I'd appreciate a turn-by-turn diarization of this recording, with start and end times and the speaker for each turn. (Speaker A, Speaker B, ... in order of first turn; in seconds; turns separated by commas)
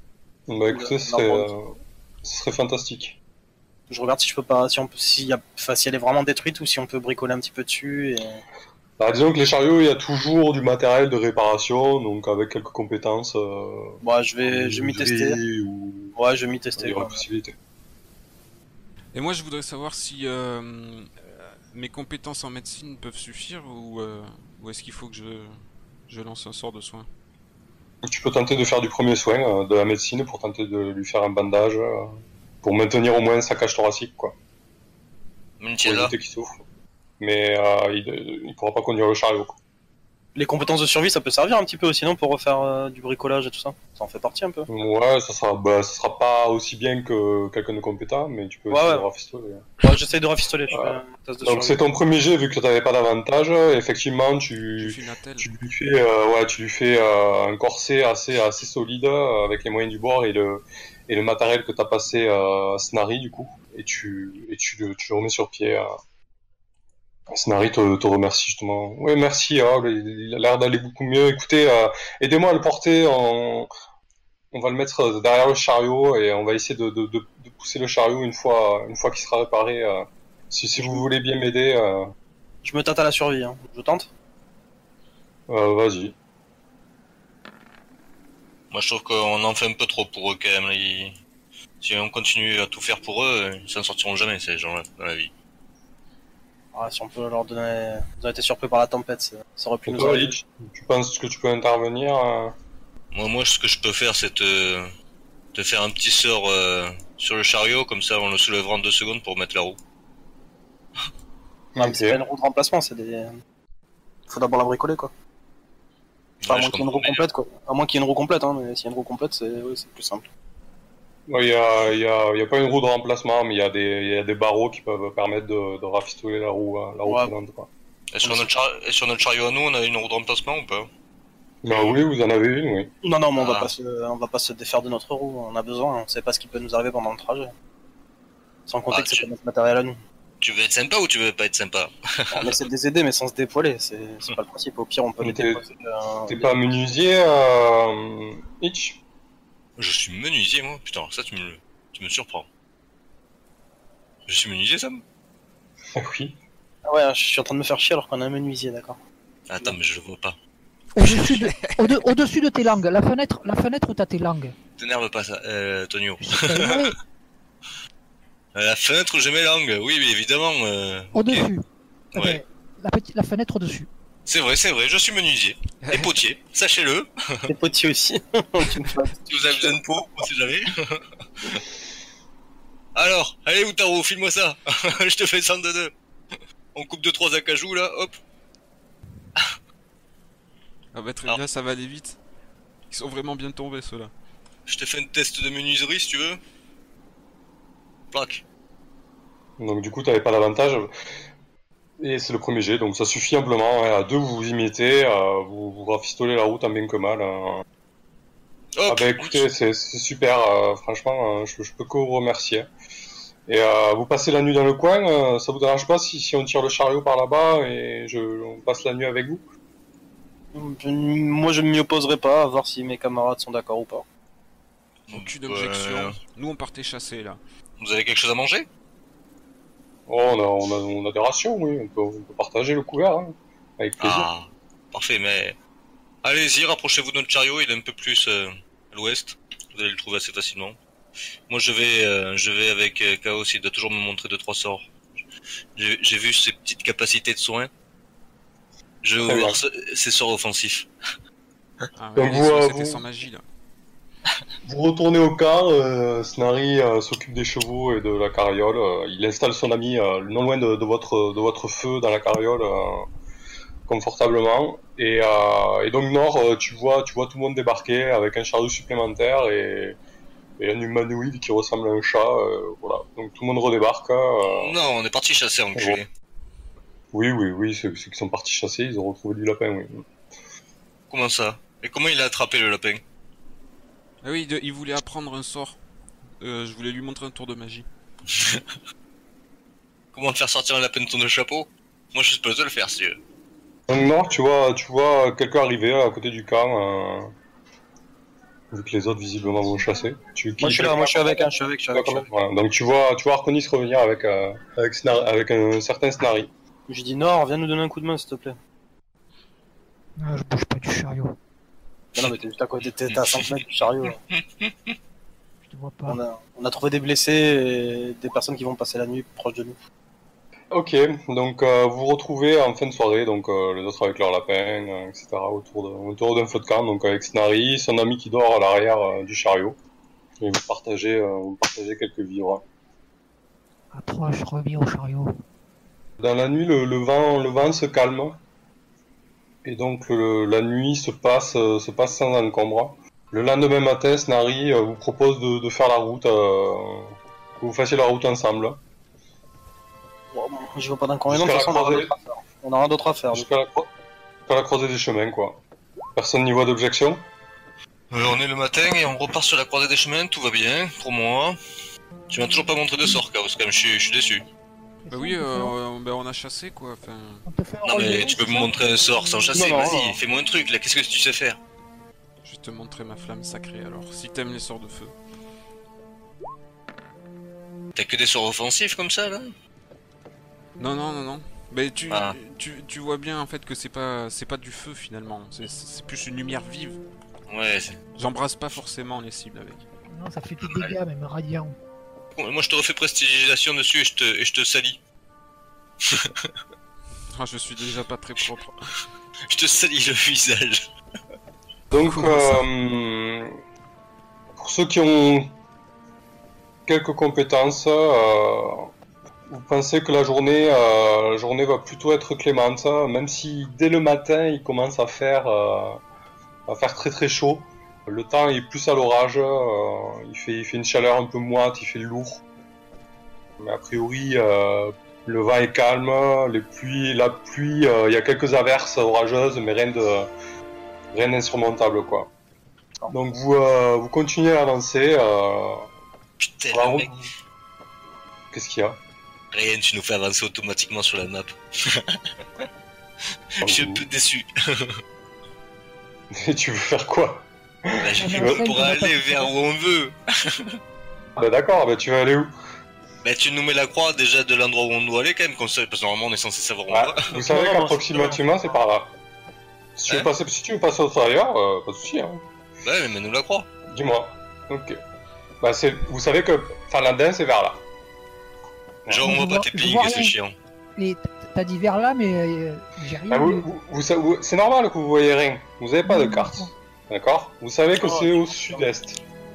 Speaker A: 0.5-3.2, Speaker B: 0.7-1.5, Speaker B: 3.9-8.4, Speaker A: 9.0-16.1, Speaker B: 14.0-15.4, Speaker B: 16.1-17.2, Speaker A: 16.8-17.5, Speaker C: 19.1-27.1, Speaker A: 28.0-34.4, Speaker D: 35.6-36.1, Speaker A: 35.8-36.6, Speaker A: 37.2-39.6, Speaker B: 40.3-44.7, Speaker A: 44.7-49.7, Speaker B: 48.7-49.0, Speaker B: 49.8-51.8, Speaker A: 50.7-65.9, Speaker C: 54.8-55.5, Speaker A: 67.3-73.7, Speaker A: 74.5-82.1, Speaker B: 82.6-84.1, Speaker A: 85.5-86.1, Speaker D: 88.7-91.2, Speaker D: 91.8-95.3, Speaker B: 96.7-100.3, Speaker A: 99.8-102.5, Speaker D: 103.1-104.9, Speaker D: 105.5-109.8, Speaker A: 111.7-112.2, Speaker B: 111.8-113.3, Speaker B: 114.3-115.1, Speaker D: 116.4-117.3, Speaker B: 116.5-120.3, Speaker A: 121.3-127.7, Speaker B: 127.0-127.3, Speaker D: 128.1-130.9, Speaker B: 128.2-128.5, Speaker A: 131.6-132.9, Speaker D: 131.7-131.9, Speaker B: 133.0-137.5, Speaker D: 133.4-133.7, Speaker B: 138.7-140.0, Speaker D: 138.9-139.2, Speaker D: 140.4-142.6, Speaker B: 142.3-146.8, Speaker A: 145.2-145.6, Speaker A: 146.3-149.0, Speaker D: 149.8-152.5, Speaker D: 154.3-155.0, Speaker A: 155.9-156.4, Speaker B: 156.8-159.0, Speaker D: 159.5-160.4, Speaker E: 160.9-164.5, Speaker C: 161.0-162.0, Speaker D: 164.8-166.9, Speaker E: 166.2-167.0, Speaker D: 168.5-171.5, Speaker E: 171.1-173.9, Speaker D: 172.1-172.4, Speaker D: 174.2-177.5, Speaker C: 175.8-176.1, Speaker B: 177.5-179.8, Speaker D: 179.3-181.6, Speaker D: 182.9-185.9, Speaker D: 186.7-188.2, Speaker C: 190.9-192.2, Speaker C: 192.9-194.1, Speaker D: 194.7-196.4, Speaker D: 198.1-198.4, Speaker A: 199.6-200.9, Speaker A: 202.0-207.6, Speaker D: 208.8-209.5, Speaker A: 208.9-212.7, Speaker A: 213.5-219.4, Speaker B: 220.5-224.0, Speaker D: 225.1-226.1, Speaker C: 225.1-227.4, Speaker D: 227.8-228.7, Speaker A: 230.1-234.3, Speaker D: 234.0-235.6, Speaker D: 236.2-240.8, Speaker D: 241.5-244.9, Speaker D: 245.8-247.7, Speaker D: 249.0-250.9, Speaker A: 249.2-249.6, Speaker C: 251.9-253.4, Speaker A: 252.2-253.0, Speaker A: 254.6-263.1, Speaker A: 263.9-270.0, Speaker A: 270.6-274.7, Speaker D: 274.4-276.1, Speaker A: 275.7-276.0, Speaker A: 277.1-280.1, Speaker D: 281.1-283.0, Speaker C: 284.2-285.8, Speaker C: 286.4-287.9, Speaker D: 288.3-288.6, Speaker D: 290.1-293.2, Speaker A: 293.9-297.3, Speaker A: 298.7-306.5, Speaker B: 300.6-302.2, Speaker B: 306.9-308.6, Speaker E: 310.2-311.3, Speaker B: 312.1-314.2, Speaker D: 313.3-313.6, Speaker D: 314.3-314.9, Speaker E: 315.6-316.2, Speaker B: 316.1-319.8, Speaker A: 320.7-329.8, Speaker A: 330.4-332.6, Speaker E: 333.9-335.3, Speaker A: 336.2-338.4, Speaker A: 339.6-348.8, Speaker B: 350.3-353.4, Speaker A: 351.3-352.1, Speaker A: 353.3-353.9, Speaker A: 354.5-355.6, Speaker A: 356.1-357.2, Speaker D: 358.1-361.6, Speaker D: 362.3-364.5, Speaker E: 365.0-365.7, Speaker C: 365.1-367.4, Speaker E: 367.4-368.8, Speaker D: 367.8-371.6, Speaker B: 369.5-370.2, Speaker C: 372.4-375.1, Speaker D: 377.9-379.5, Speaker C: 380.8-387.0, Speaker D: 382.1-382.4, Speaker D: 387.5-388.0, Speaker C: 388.1-389.8, Speaker E: 390.1-391.8, Speaker D: 392.4-395.0, Speaker D: 396.0-396.6, Speaker C: 397.3-398.8, Speaker D: 399.5-400.9, Speaker A: 401.9-403.6, Speaker C: 402.0-402.6, Speaker A: 404.6-405.5, Speaker A: 406.9-408.9, Speaker A: 409.5-416.0, Speaker A: 416.7-422.4, Speaker A: 423.6-430.3, Speaker A: 431.1-432.3, Speaker A: 433.1-435.9, Speaker D: 436.4-437.1, Speaker A: 436.7-437.3, Speaker A: 438.5-439.0, Speaker D: 439.5-442.6, Speaker D: 443.5-445.0, Speaker A: 443.6-444.0, Speaker A: 446.3-448.7, Speaker D: 448.0-450.8, Speaker E: 448.1-449.5, Speaker A: 451.4-452.5, Speaker D: 453.2-457.3, Speaker A: 456.9-459.1, Speaker B: 457.3-458.4, Speaker A: 460.0-462.4, Speaker D: 462.8-463.7, Speaker A: 463.9-465.0, Speaker A: 465.6-467.8, Speaker D: 469.1-470.5, Speaker E: 469.1-470.4, Speaker E: 470.9-473.6, Speaker A: 473.3-479.2, Speaker E: 476.0-476.7, Speaker B: 478.0-478.8